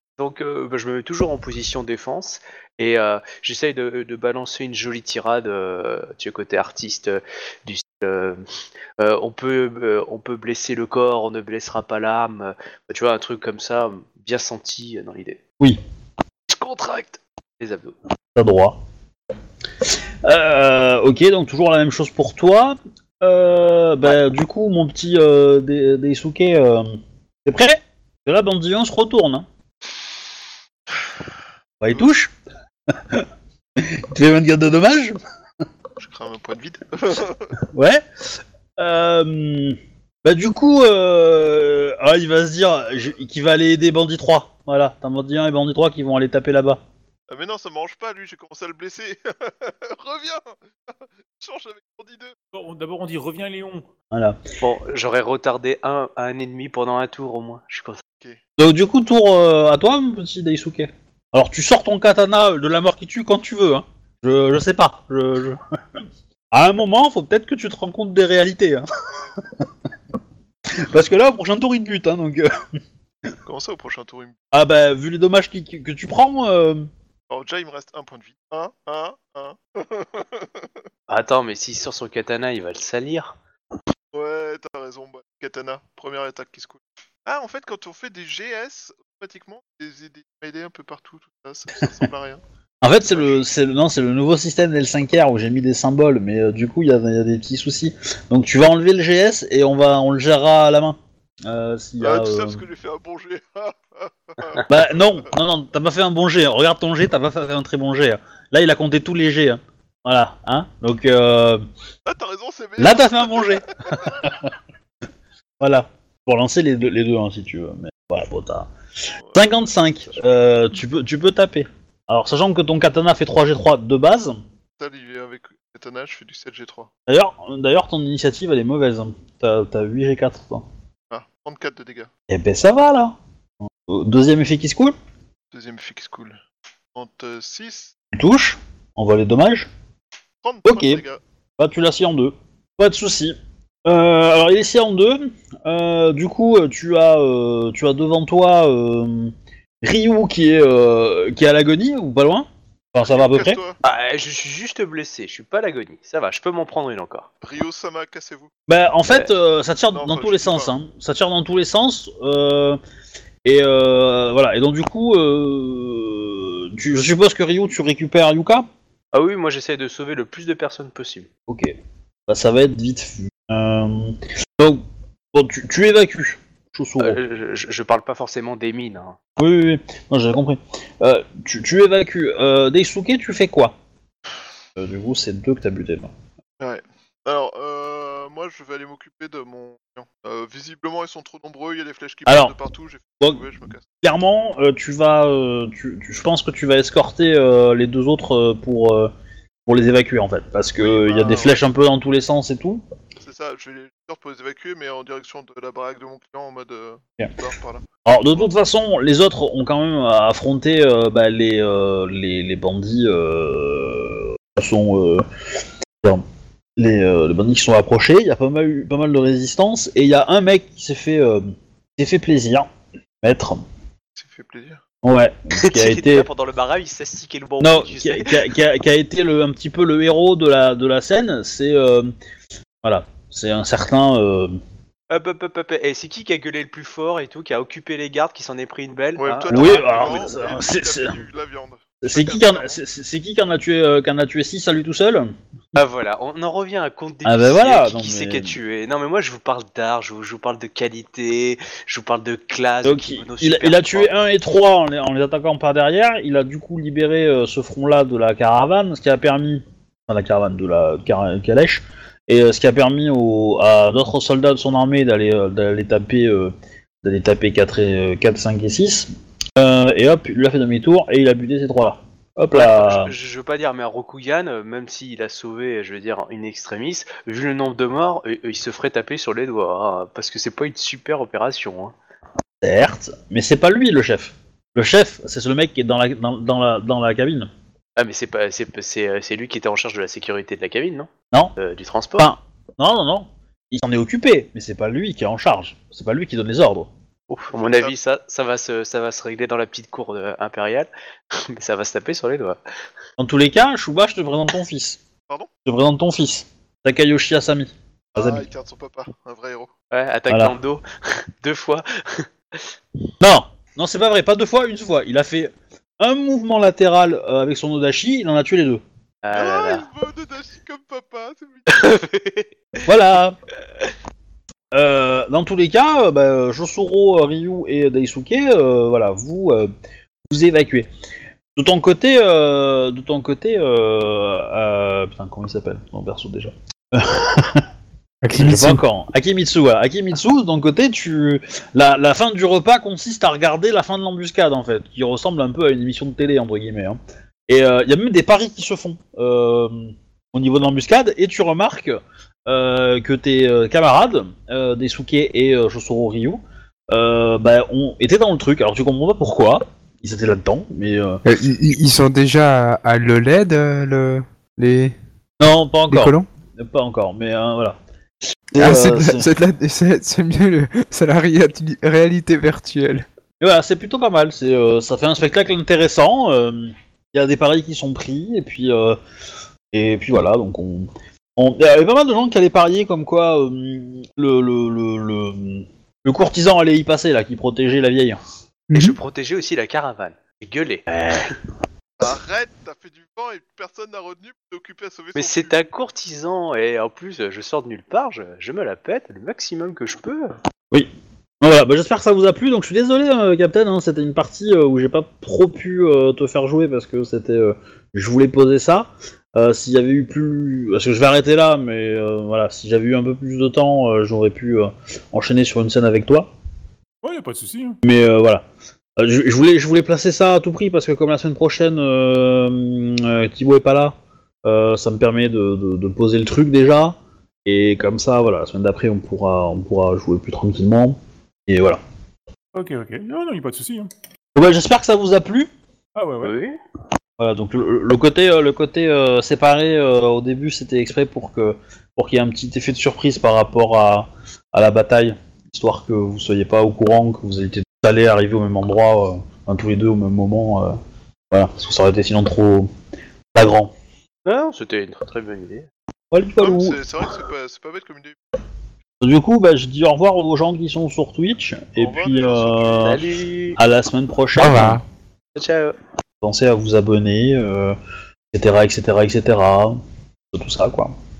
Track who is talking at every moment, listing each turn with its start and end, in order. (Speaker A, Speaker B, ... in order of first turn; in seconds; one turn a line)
Speaker A: 0.2-8.4
Speaker A: 9.0-15.4
Speaker A: 16.5-17.9
Speaker B: 18.4-18.8
Speaker B: 19.9-29.5
Speaker B: 31.8-32.3
Speaker B: 32.9-35.2
Speaker C: 36.0-37.6
Speaker B: 37.6-46.8
Speaker C: 47.3-52.4
Speaker D: 52.5-53.9
Speaker B: 54.1-54.4
Speaker A: 54.6-58.0
Speaker B: 58.6-69.7
Speaker B: 70.7-72.7
Speaker C: 73.5-74.4
Speaker B: 74.5-76.9
Speaker C: 77.3-80.7
Speaker A: 81.1-83.4
Speaker C: 84.1-92.4
Speaker B: 92.8-102.6
Speaker C: 93.1-93.5
Speaker C: 102.0-105.3
Speaker B: 104.7-111.6
Speaker C: 112.0-114.3
Speaker B: 112.8-114.5
Speaker B: 115.6-118.7
Speaker C: 119.2-120.4
Speaker B: 119.3-124.4
Speaker C: 124.8-126.9
Speaker B: 127.1-130.7
Speaker C: 131.1-132.1
Speaker B: 132.3-134.9
Speaker C: 135.5-136.4
Speaker C: 136.9-137.9
Speaker B: 138.1-139.7
Speaker C: 140.4-141.2
Speaker B: 140.7-141.0
Speaker B: 141.6-153.6
Speaker C: 153.0-153.8
Speaker A: 153.8-157.3
Speaker C: 157.4-158.5
Speaker B: 158.7-162.8
Speaker C: 159.9-160.7
Speaker B: 163.4-168.7
Speaker A: 169.1-171.3
Speaker B: 171.5-171.8
Speaker B: 172.3-177.2
Speaker A: 177.0-179.2
Speaker B: 179.4-183.8
Speaker B: 184.8-186.1
Speaker C: 186.6-193.8
Speaker B: 192.3-192.5
Speaker B: 194.0-199.1
Speaker B: 199.7-202.8
Speaker C: 200.8-201.6
Speaker C: 203.2-208.5
Speaker B: 208.1-215.3
Speaker B: 216.8-222.7
Speaker B: 223.2-223.6
Speaker C: 224.2-224.8
Speaker B: 225.0-226.3
Speaker A: 225.6-228.6
Speaker B: 227.6-232.1
Speaker B: 232.8-234.6
Speaker A: 235.1-240.4
Speaker C: 239.2-242.8
Speaker B: 239.5-241.2
Speaker B: 242.0-245.3
Speaker A: 245.8-254.1
Speaker B: 247.2-248.6
Speaker B: 252.8-273.1
Speaker A: 272.5-281.9
Speaker B: 282.6-287.5
Speaker A: 288.0-292.3
Speaker B: 292.2-296.9
Speaker A: 297.3-302.6
Speaker C: 297.5-298.0
Speaker B: 303.2-305.0
Speaker B: 305.6-308.4
Speaker C: 308.1-309.7
Speaker A: 309.9-312.8
Speaker B: 310.3-310.6
Speaker B: 313.2-318.8
Speaker A: 319.2-319.9
Speaker C: 319.3-322.0
Speaker A: 321.7-322.5
Speaker B: 322.8-323.4
Speaker B: 324.7-329.7
Speaker B: 330.3-330.9
Speaker B: 331.6-337.7
Speaker E: 338.2-338.8
Speaker B: 338.4-361.2
Speaker E: 361.2-364.9
Speaker B: 365.4-367.8
Speaker E: 365.9-366.3
Speaker B: 368.5-369.3
Speaker E: 368.6-373.1
Speaker B: 373.4-379.0
Speaker B: 379.7-388.2
Speaker A: 388.7-391.4
Speaker B: 390.9-391.4
Speaker C: 392.0-395.6
Speaker A: 395.1-400.4
Speaker B: 401.4-416.3
Speaker D: 417.0-417.8
Speaker B: 417.8-418.4
Speaker B: 419.0-431.8
Speaker D: 432.5-433.9
Speaker B: 434.4-435.5
Speaker D: 436.0-436.4
Speaker A: 436.2-436.6
Speaker B: 437.2-450.8
Speaker B: 451.3-452.7
Speaker B: 453.3-453.7
Speaker A: 454.3-455.7
Speaker B: 456.1-456.8
Speaker C: 456.4-458.2
Speaker B: 459.0-464.8
Speaker C: 461.8-463.1
Speaker A: 462.8-463.6
Speaker E: 464.4-464.8
Speaker A: 465.4-465.8
Speaker B: 466.2-467.8
Speaker B: 468.3-469.8
Speaker B: 470.3-470.9